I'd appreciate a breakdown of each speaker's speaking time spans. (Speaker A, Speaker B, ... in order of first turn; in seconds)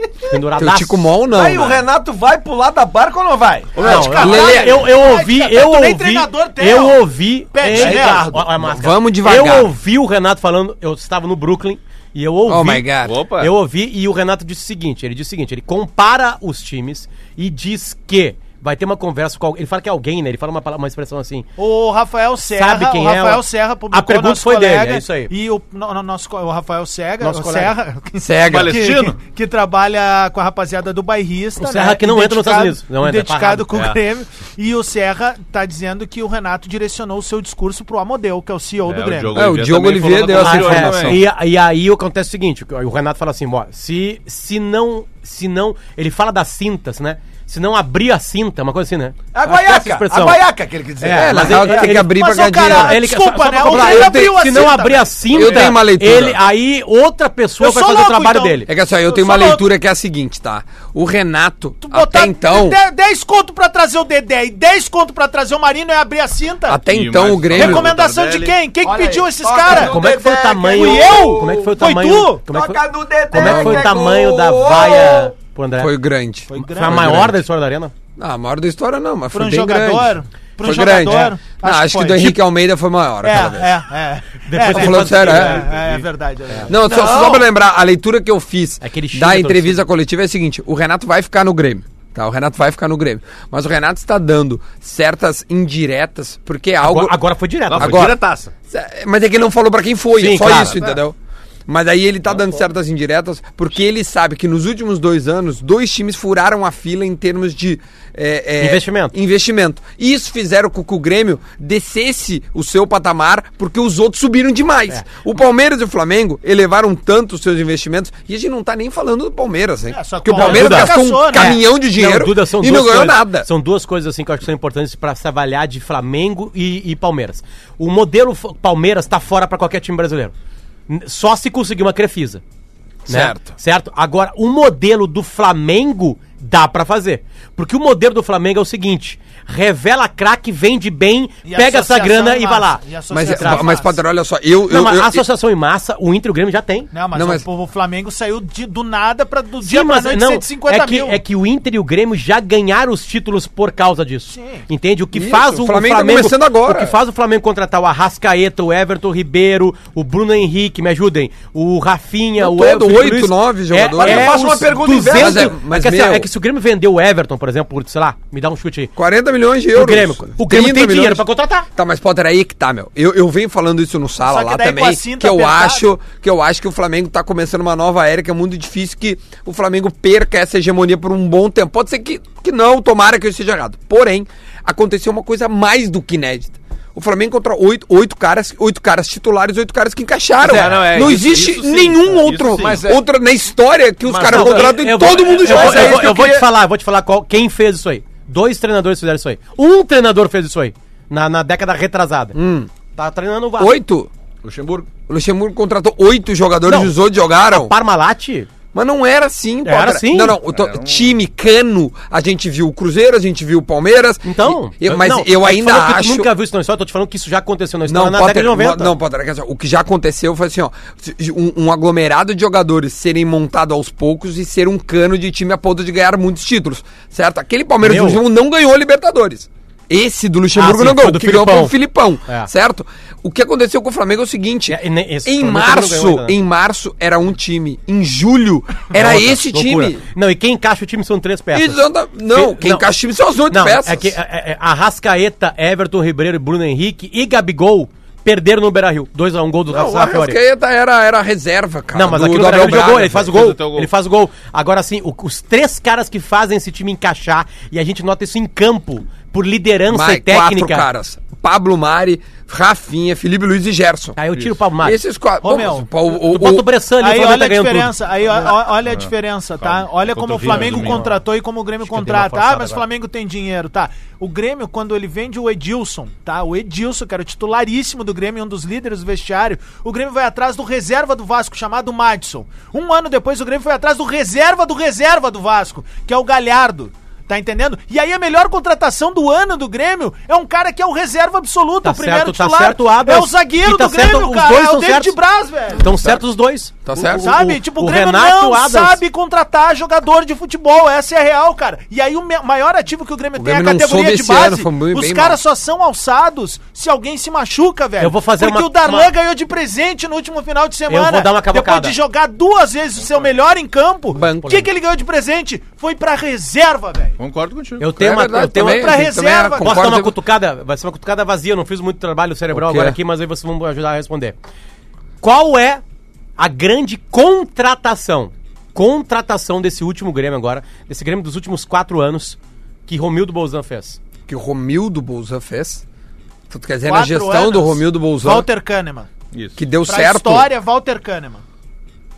Speaker A: 0.3-1.1, 3.8-12.9, 13.4-21.5, 22.5-25.3, 27.2-27.7, 31.6-33.9, 40.3-50.4, 51.0-58.7, 69.7-75.9, 76.5-77.9, 81.0-81.3, 84.5-85.6, 88.8-89.8, 96.8-98.1, 100.1-100.8, 108.6-109.1, 120.3-130.3, 130.9-132.4, 133.1-143.7, 144.7-146.9, 149.6-168.9, 169.7-171.7, 190.4-191.2, 194.1-202.4, 202.9-203.7, 206.6-208.5, 209.6-210.4, 214.2-218.9, 227.8-228.2, 230.5-231.7, 232.2-232.5, 234.7-236.3, 238.9-242.9, 243.5-250.4, 251.9-260.9, 264.2-265.0, 266.1-267.9, 270.4-271.1, 271.8-272.8, 291.8-295.1, 295.8-299.0, 308.0-309.1, 310.9-311.9, 317.8-319.0, 319.6-324.4, 325.2-325.8, 326.4-334.0
Speaker B: 0.6-1.8, 3.9-4.8, 8.6-9.7, 12.5-13.2, 28.2-28.7, 39.3-41.2, 51.1-53.0, 53.7-56.4, 58.7-62.8, 66.7-67.9, 73.3-74.0, 75.8-77.4, 78.2-83.7, 84.7-85.6, 86.7-97.2, 97.7-98.2, 98.7-101.2, 101.7-123.5, 133.1-133.5, 143.1-145.2, 147.1-147.4, 155.1-156.9, 162.4-166.3, 168.9-196.1, 202.3-202.7, 203.6-204.1, 205.0-207.7, 208.7-216.3, 217.8-240.0, 241.5-244.1, 249.8-253.3, 259.9-264.2, 264.8-266.7, 296.8-297.5, 303.4-305.4, 314.1-314.6, 317.9-320.1, 322.5-323.0, 334.3-335.8, 336.5-338.5, 339.6-340.5
Speaker C: 1.3-4.0, 7.7-8.5, 49.3-52.0, 68.8-71.8, 72.5-75.3, 86.7-87.5, 163.9-165.6, 192.4-193.1, 194.3-194.7, 195.3-196.5, 204.4-204.9
Speaker D: 3.8-8.3, 21.6-39.5, 51.9-55.3, 57.6-59.7, 61.8-66.8, 67.5-70.0, 70.7-72.4, 76.5-77.3, 79.3-82.6, 83.2-86.8, 119.9-121.6, 141.4-144.0, 146.9-151.2, 154.3-154.6, 174.2-175.9, 265.4-265.9, 266.9-295.9, 297.1-317.1, 318.7-319.8, 336.8-339.1, 339.9-341.4
Speaker E: 13.0-13.5, 28.4-29.2, 38.8-41.2, 55.4-55.7, 66.9-68.5, 85.6-86.0, 97.7-98.5, 100.4-101.0, 102.3-102.6, 190.4-192.9, 210.5-211.2, 252.5-253.9, 269.6-271.1, 313.0-313.3, 317.2-317.8, 339.3-339.6